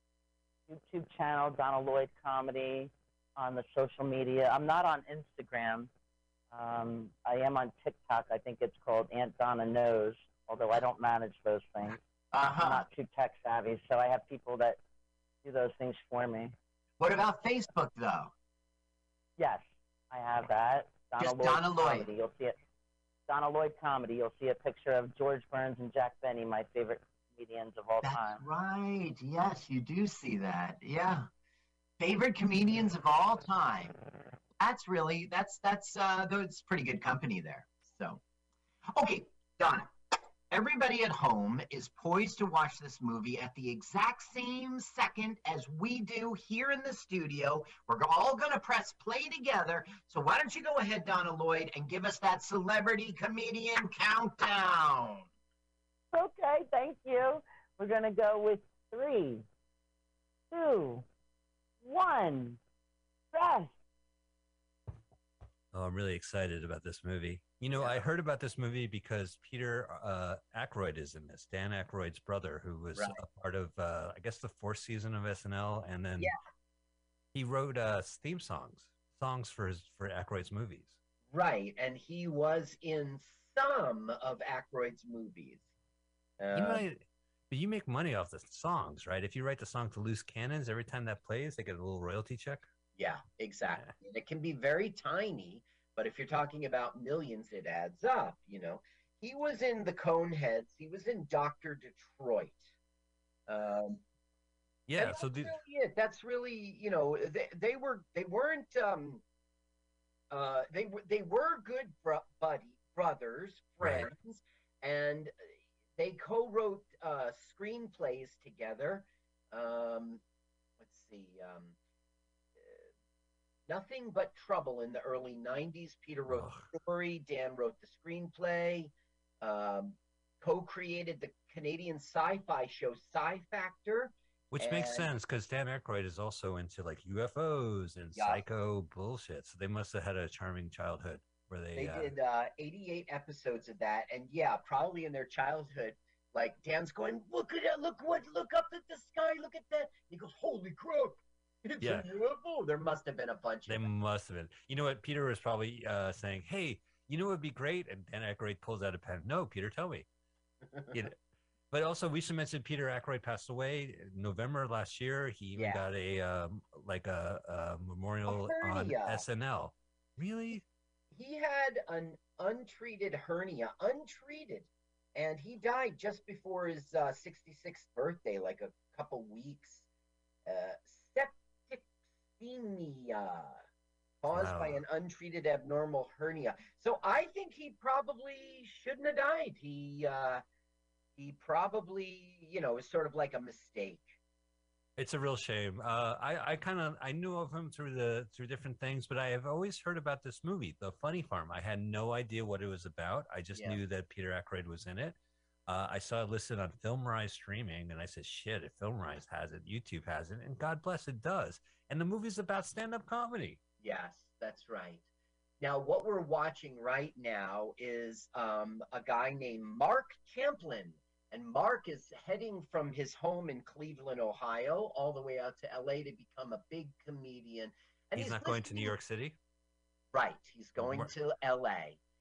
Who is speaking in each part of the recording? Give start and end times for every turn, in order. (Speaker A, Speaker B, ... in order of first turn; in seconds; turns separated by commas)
Speaker A: 0.7-5.9, Speaker A: 6.5-12.0, Speaker B: 12.3-12.9, Speaker A: 12.6-14.8, Speaker A: 15.4-16.6, Speaker B: 17.0-18.3, Speaker A: 19.4-22.6, Speaker B: 21.2-22.1, Speaker A: 23.3-28.4, Speaker B: 28.0-31.3, Speaker B: 32.0-34.0, Speaker B: 34.6-38.2, Speaker B: 38.9-39.9, Speaker B: 40.5-55.3, Speaker A: 56.1-59.5, Speaker A: 60.5-61.0, Speaker A: 61.8-62.6, Speaker A: 63.3-63.7, Speaker C: 65.7-76.3, Speaker B: 67.8-68.0, Speaker B: 73.0-73.2, Speaker C: 77.3-81.0, Speaker B: 81.3-85.6, Speaker B: 86.4-86.8, Speaker C: 86.5-92.7, Speaker B: 93.0-102.7, Speaker B: 103.5-104.0, Speaker C: 104.9-105.5, Speaker B: 105.0-109.2, Speaker B: 110.3-115.3, Speaker C: 113.8-114.1, Speaker B: 116.0-120.2, Speaker B: 120.8-121.8, Speaker B: 122.6-122.9, Speaker B: 123.7-135.1, Speaker C: 126.3-126.7, Speaker C: 134.5-142.1, Speaker B: 138.2-138.4, Speaker B: 141.8-153.9, Speaker C: 153.7-160.1, Speaker B: 160.7-161.0, Speaker C: 161.7-170.6, Speaker B: 165.6-165.9, Speaker B: 168.3-169.2, Speaker B: 171.1-179.8, Speaker B: 180.5-181.9, Speaker B: 182.4-183.6, Speaker B: 184.2-190.4, Speaker C: 184.3-184.8, Speaker B: 191.2-194.1, Speaker C: 195.0-205.2, Speaker B: 203.5-203.8, Speaker C: 205.7-213.6, Speaker B: 213.8-215.0, Speaker B: 215.6-229.0, Speaker C: 228.2-229.4, Speaker B: 230.1-232.0, Speaker C: 230.8-231.1